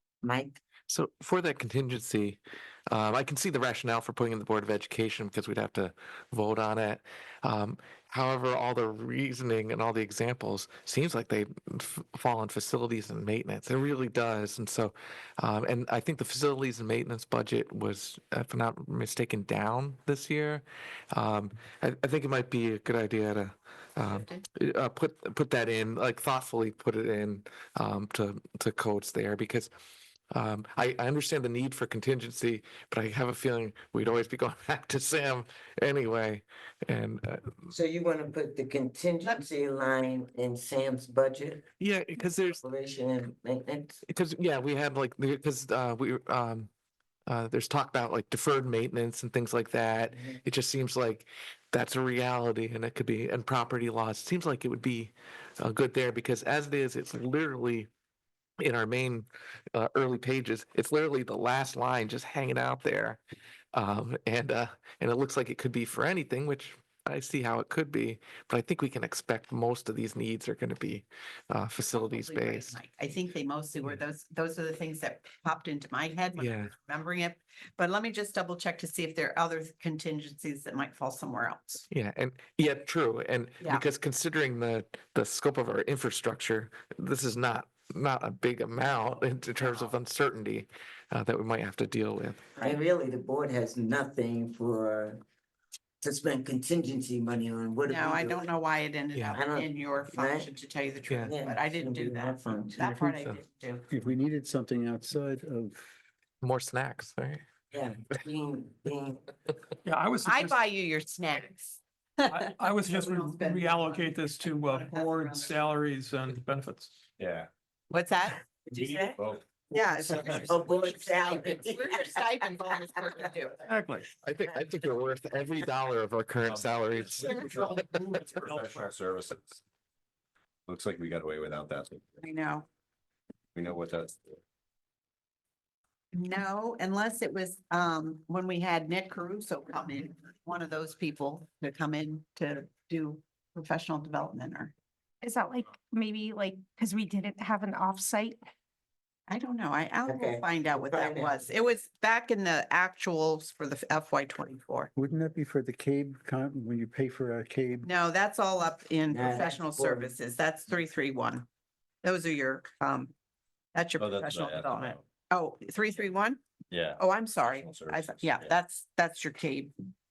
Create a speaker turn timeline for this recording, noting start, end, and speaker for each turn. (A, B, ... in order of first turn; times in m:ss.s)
0:00.2-0:00.6 A
0:00.9-0:29.7 B
0:24.0-0:24.4 C
0:30.3-0:37.7 B
0:37.7-0:41.6 A
0:41.8-0:42.6 B
0:42.4-0:44.0 A
0:44.0-0:46.7 B
0:47.3-0:57.9 B
0:50.1-0:50.4 A
0:58.6-1:03.2 B
1:03.7-1:12.8 B
1:11.8-1:21.8 C
1:16.4-1:16.7 B
1:21.9-1:32.5 B
1:29.6-1:29.9 C
1:32.6-1:35.2 A
1:36.0-1:38.4 A
1:37.8-1:43.8 C
1:39.1-1:39.4 B
1:39.3-1:40.5 A
1:41.1-1:41.3 B
1:41.3-1:42.8 A
1:42.8-1:43.4 B
1:43.9-1:45.9 D
1:46.4-1:47.4 B
1:47.7-1:49.2 A
1:49.8-1:50.7 E
1:50.2-1:55.6 C
1:52.3-1:56.9 E
1:57.2-1:57.5 F
1:57.9-1:58.4 C
1:58.7-1:59.2 A
1:58.7-1:59.4 F
1:59.7-2:03.7 C
1:59.7-2:02.2 A
2:03.6-2:04.1 E
2:04.2-2:08.4 B
2:06.5-2:09.6 F
2:08.4-2:08.7 E
2:10.7-2:12.1 F
2:12.2-2:12.6 C
2:13.5-2:14.4 F
2:16.1-2:24.7 C
2:25.2-2:28.4 G
2:29.3-2:34.9 C
2:30.1-2:31.3 A
2:34.9-2:37.9 D
2:37.8-2:41.4 C
2:39.1-2:40.1 A
2:42.0-2:43.1 C
2:43.7-2:49.7 C
2:44.0-2:45.0 F
2:46.7-2:48.6 F